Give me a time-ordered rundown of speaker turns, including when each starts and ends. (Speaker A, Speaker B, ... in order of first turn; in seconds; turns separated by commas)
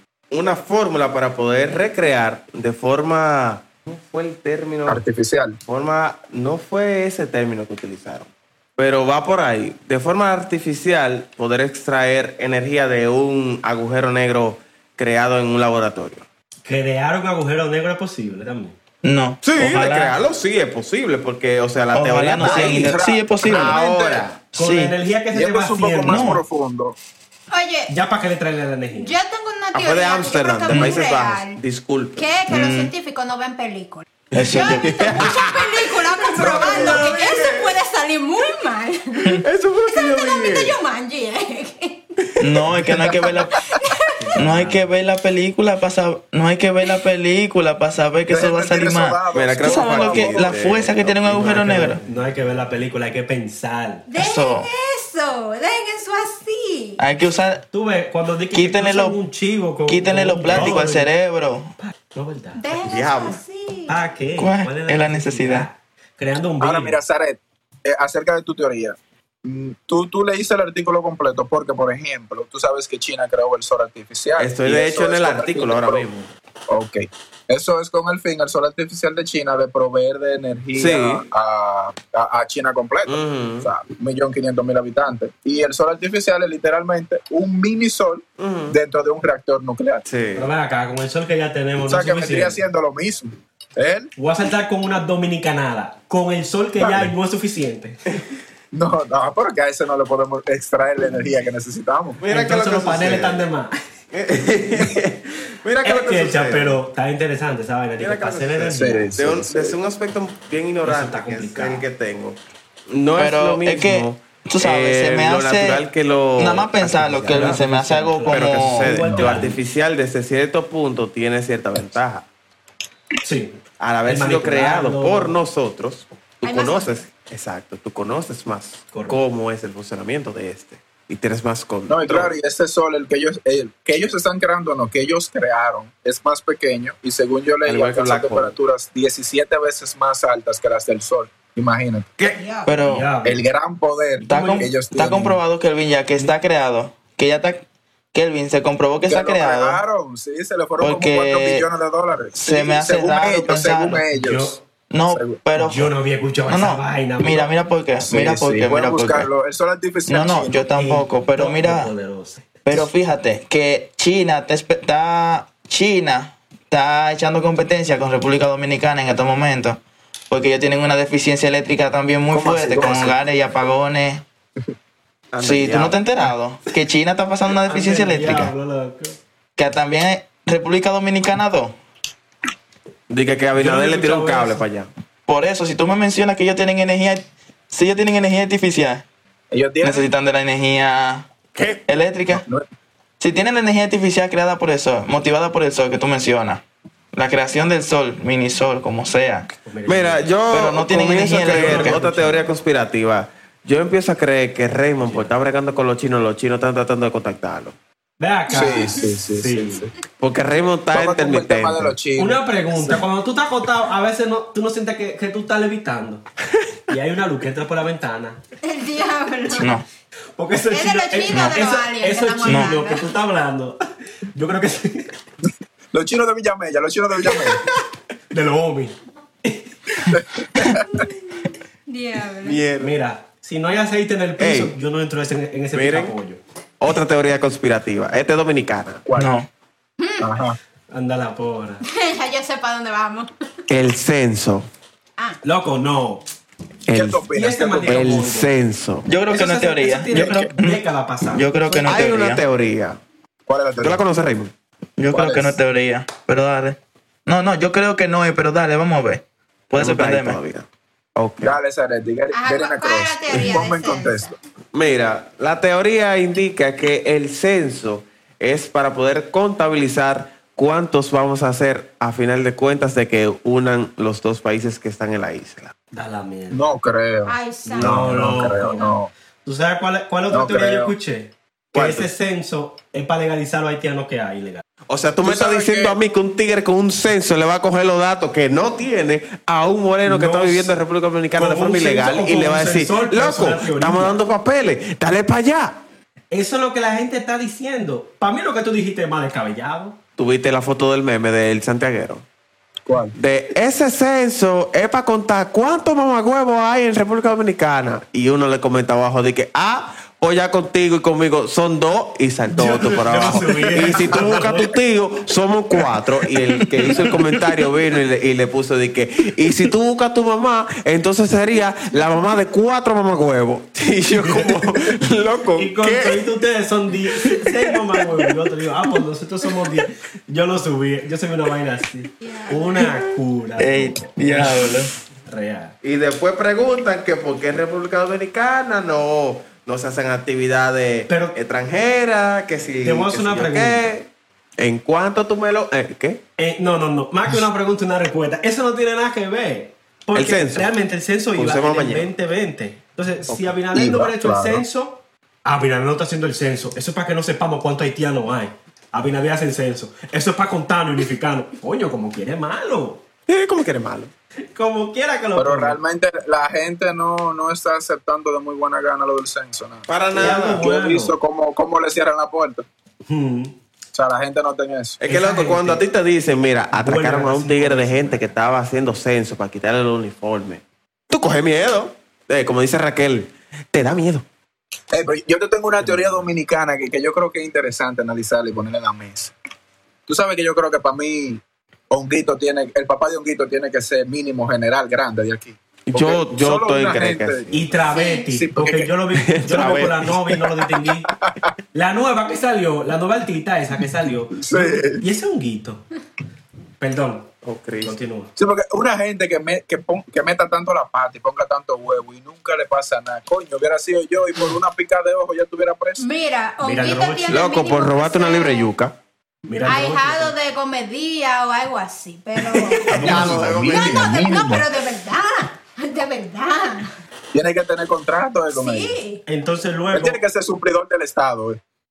Speaker A: 0.3-5.0, Speaker B: 4.9-5.6, Speaker A: 5.7-16.2, Speaker C: 16.6-18.8, Speaker D: 19.0-20.2, Speaker A: 19.4-24.4, Speaker D: 21.9-23.8, Speaker B: 22.4-24.3, Speaker D: 24.6-24.9, Speaker C: 24.6-26.4, Speaker B: 25.3-27.0, Speaker D: 26.1-26.4, Speaker E: 27.5-27.9, Speaker C: 27.9-29.1, Speaker E: 28.9-31.6, Speaker A: 29.7-32.3, Speaker E: 32.2-42.0, Speaker D: 32.5-32.9, Speaker A: 34.3-37.8, Speaker D: 34.3-35.2, Speaker B: 36.4-37.0, Speaker A: 39.4-40.8, Speaker D: 42.4-43.7, Speaker B: 42.9-43.5, Speaker E: 43.4-44.2, Speaker C: 44.2-44.9, Speaker D: 44.4-52.0, Speaker B: 48.3-50.6, Speaker A: 49.3-52.2, Speaker C: 51.4-54.1, Speaker E: 54.1-57.0, Speaker D: 54.2-54.7, Speaker D: 57.0-57.6, Speaker C: 57.7-61.1, Speaker D: 58.5-59.2, Speaker D: 59.9-61.7, Speaker A: 60.5-60.8, Speaker C: 61.8-62.6, Speaker E: 62.5-64.0, Speaker A: 62.8-63.4, Speaker C: 63.9-67.0, Speaker D: 64.4-65.7, Speaker B: 66.6-76.1, Speaker A: 74.4-76.3, Speaker B: 76.7-90.0, Speaker A: 80.8-81.2, Speaker A: 83.1-83.7, Speaker A: 88.4-88.8, Speaker A: 90.0-90.5, Speaker C: 90.3-92.6, Speaker B: 91.9-94.1, Speaker C: 94.2-98.0, Speaker B: 96.8-97.1, Speaker B: 98.7-102.2, Speaker A: 102.2-103.5, Speaker C: 102.3-103.8, Speaker A: 104.1-106.8, Speaker C: 105.8-109.1, Speaker A: 108.0-112.4, Speaker B: 108.7-109.8, Speaker C: 110.8-111.8, Speaker A: 112.9-117.6, Speaker D: 113.2-115.8, Speaker D: 116.4-119.0, Speaker C: 117.2-119.6, Speaker A: 118.3-122.2, Speaker B: 119.0-119.4, Speaker C: 123.2-125.3, Speaker A: 123.8-132.3, Speaker E: 126.4-127.0, Speaker C: 128.9-129.2, Speaker B: 131.9-142.1, Speaker A: 137.6-138.6, Speaker E: 142.2-142.7, Speaker D: 142.7-143.1, Speaker C: 142.8-143.4, Speaker B: 143.2-145.4, Speaker C: 144.2-145.2, Speaker D: 144.3-147.6, Speaker D: 148.1-149.8, Speaker B: 149.1-154.6, Speaker D: 150.8-151.6, Speaker D: 152.3-154.0, Speaker C: 154.1-154.6, Speaker D: 154.9-155.9, Speaker B: 155.1-155.4, Speaker C: 155.6-157.5, Speaker D: 156.4-159.3, Speaker B: 158.0-160.7, Speaker D: 160.1-161.9, Speaker C: 160.8-162.4, Speaker D: 162.7-174.2, Speaker B: 172.3-173.2, Speaker A: 175.3-176.0, Speaker D: 175.4-178.5, Speaker C: 177.7-179.2, Speaker D: 179.6-181.8, Speaker A: 183.1-184.9, Speaker C: 183.6-184.6, Speaker D: 185.3-189.1, Speaker B: 189.5-190.1, Speaker D: 189.8-191.3, Speaker A: 191.6-191.8, Speaker D: 191.9-192.4, Speaker B: 192.3-192.6, Speaker D: 193.2-196.6, Speaker D: 197.1-199.5, Speaker C: 199.7-200.3, Speaker A: 199.9-207.8, Speaker D: 200.5-202.0, Speaker C: 201.4-202.5, Speaker C: 205.0-205.3, Speaker C: 208.2-209.9, Speaker B: 208.5-209.9, Speaker E: 208.6-209.1, Speaker A: 210.2-212.0, Speaker B: 210.9-213.1, Speaker C: 212.2-216.2, Speaker C: 216.9-218.4, Speaker E: 218.6-219.8, Speaker D: 219.6-219.8, Speaker C: 220.4-223.8, Speaker E: 220.7-223.1, Speaker D: 221.3-221.6, Speaker D: 222.4-222.7, Speaker C: 224.3-225.1, Speaker B: 225.9-227.7, Speaker C: 228.3-229.7, Speaker B: 230.1-230.8, Speaker E: 231.9-232.6, Speaker A: 232.4-232.9, Speaker C: 232.8-236.4, Speaker A: 234.4-234.8, Speaker A: 235.7-236.2, Speaker A: 236.8-239.1, Speaker B: 239.1-239.3, Speaker D: 239.2-239.5, Speaker E: 240.0-240.3, Speaker B: 240.2-240.6, Speaker C: 240.9-241.8, Speaker E: 241.8-243.3, Speaker A: 243.7-244.7, Speaker C: 245.4-246.2, Speaker A: 246.9-247.2, Speaker B: 246.9-248.2, Speaker C: 247.3-248.5, Speaker A: 247.8-249.1, Speaker D: 249.1-252.4, Speaker C: 249.3-251.5, Speaker B: 250.1-250.5, Speaker A: 251.7-253.0, Speaker B: 253.5-254.0, Speaker A: 253.8-254.5, Speaker D: 255.0-260.4, Speaker B: 255.1-255.6, Speaker A: 259.8-261.6, Speaker B: 261.4-264.4, Speaker E: 262.3-264.4, Speaker A: 264.7-275.7, Speaker C: 275.9-276.6, Speaker B: 276.5-279.1, Speaker E: 277.3-279.0, Speaker C: 277.7-284.6, Speaker B: 280.3-281.0, Speaker A: 281.7-282.1, Speaker A: 284.9-295.8, Speaker B: 285.2-286.0, Speaker C: 290.1-290.8, Speaker C: 291.4-294.2, Speaker C: 296.3-300.0, Speaker A: 300.2-302.2, Speaker B: 302.9-303.1, Speaker A: 303.1-326.3, Speaker C: 312.5-314.7, Speaker C: 324.2-324.9, Speaker C: 325.6-335.8, Speaker E: 332.2-332.9, Speaker D: 333.6-334.9, Speaker A: 335.8-346.2, Speaker C: 341.1-341.4, Speaker C: 342.8-343.9, Speaker C: 346.4-363.0, Speaker A: 350.1-350.7, Speaker A: 351.4-352.1, Speaker A: 353.3-353.6, Speaker B: 353.7-354.6, Speaker A: 363.3-364.1, Speaker C: 364.5-365.8, Speaker B: 365.4-372.7, Speaker A: 369.9-370.6, Speaker C: 370.1-371.2, Speaker C: 373.1-373.6, Speaker B: 373.9-375.0, Speaker A: 375.0-384.3, Speaker C: 375.1-375.8, Speaker C: 376.7-378.3, Speaker B: 384.9-389.3, Speaker B: 390.1-398.9, Speaker A: 395.9-397.4, Speaker C: 397.5-401.1, Speaker E: 397.9-398.3, Speaker A: 399.1-400.1, Speaker B: 400.3-401.5, Speaker C: 401.7-405.9, Speaker B: 404.3-405.0, Speaker C: 406.8-408.3, Speaker A: 407.4-408.0, Speaker B: 408.4-416.0, Speaker E: 416.0-418.7, Speaker C: 416.6-417.4, Speaker A: 417.3-419.0, Speaker C: 419.5-420.3, Speaker E: 419.6-426.9, Speaker A: 422.5-424.4, Speaker B: 422.9-424.7, Speaker C: 422.9-423.5, Speaker B: 427.3-429.0, Speaker E: 428.5-429.2, Speaker C: 429.2-430.2, Speaker B: 429.9-431.6